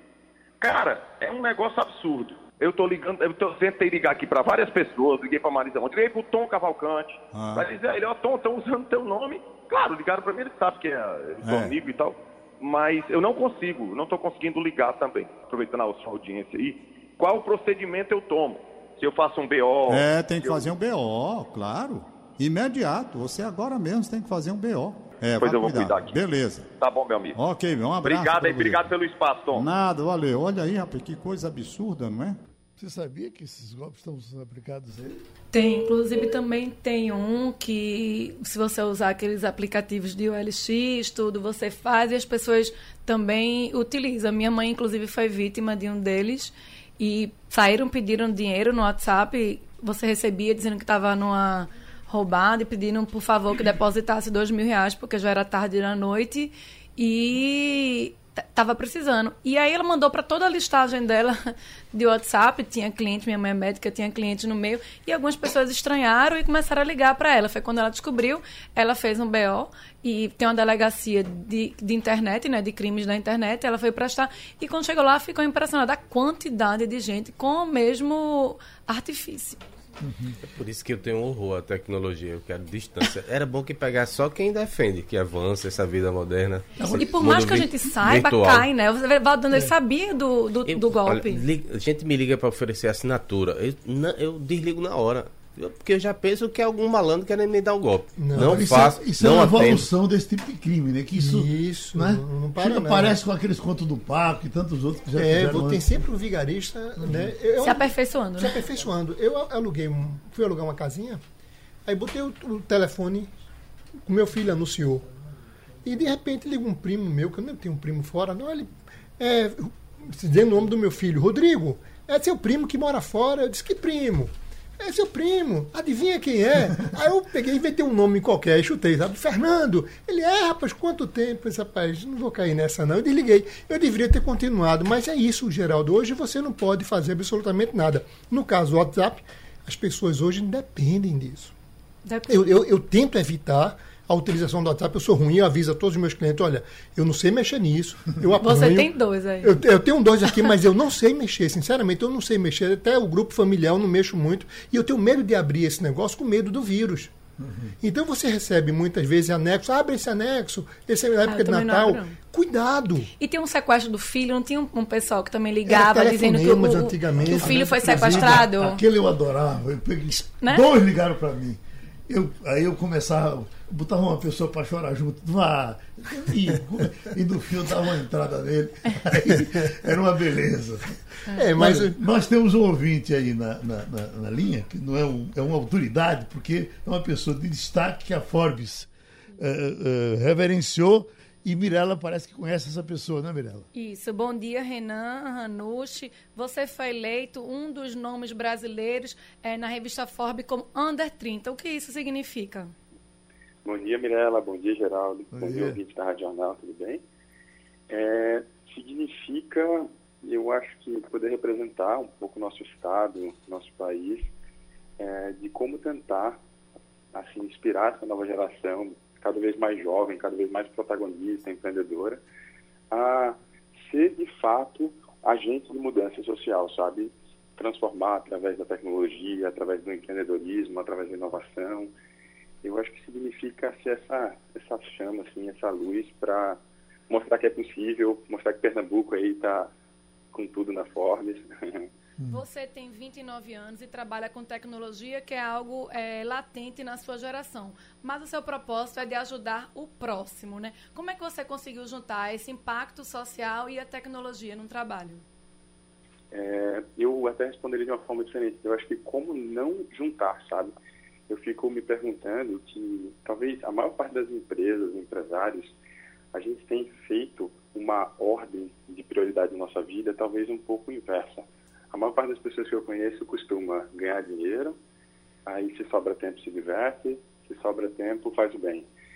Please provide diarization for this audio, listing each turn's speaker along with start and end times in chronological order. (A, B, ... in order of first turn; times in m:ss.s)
0:00.6-0:20.7 A
0:07.3-0:07.7 B
0:11.4-0:11.8 B
0:19.9-0:26.7 B
0:25.4-0:26.2 A
0:26.8-0:27.4 A
0:27.4-0:28.9 B
0:28.0-0:29.6 A
0:29.5-0:32.4 B
0:32.8-0:35.2 C
0:35.5-1:19.6 D
1:20.0-1:20.4 C
1:20.4-1:28.7 E
1:26.8-1:27.3 C
1:27.0-1:31.4 D
1:30.7-1:39.9 E
1:38.2-1:38.8 F
1:38.4-1:46.0 C
1:41.2-1:43.2 F
1:45.2-1:51.2 F
1:47.0-1:47.3 C
1:47.6-1:48.6 D
1:51.9-1:53.3 F
1:54.0-1:55.1 F
1:55.8-2:21.5 F
2:22.1-2:22.5 D
2:22.3-2:37.1 F
2:28.4-2:29.6 D
2:37.4-2:37.7 C
2:37.8-2:43.1 F
2:41.2-2:42.2 D
2:43.2-2:48.8 D
2:45.7-2:48.5 F
2:47.2-3:13.7 C
2:50.1-2:50.7 D
2:59.3-2:59.8 F
3:01.3-3:02.0 F
3:13.7-3:22.7 D
3:23.6-3:27.0 G
3:25.3-3:25.8 C
3:27.9-3:34.3 G
3:35.0-3:36.4 G
3:37.1-3:42.2 G
3:42.9-3:51.9 G
3:52.6-3:59.7 G
4:00.3-4:01.9 G
4:02.2-4:02.4 C
4:02.3-4:15.2 D
4:16.3-4:20.7 G
4:21.3-4:25.8 G
4:26.3-4:34.8 G
4:35.5-4:38.9 G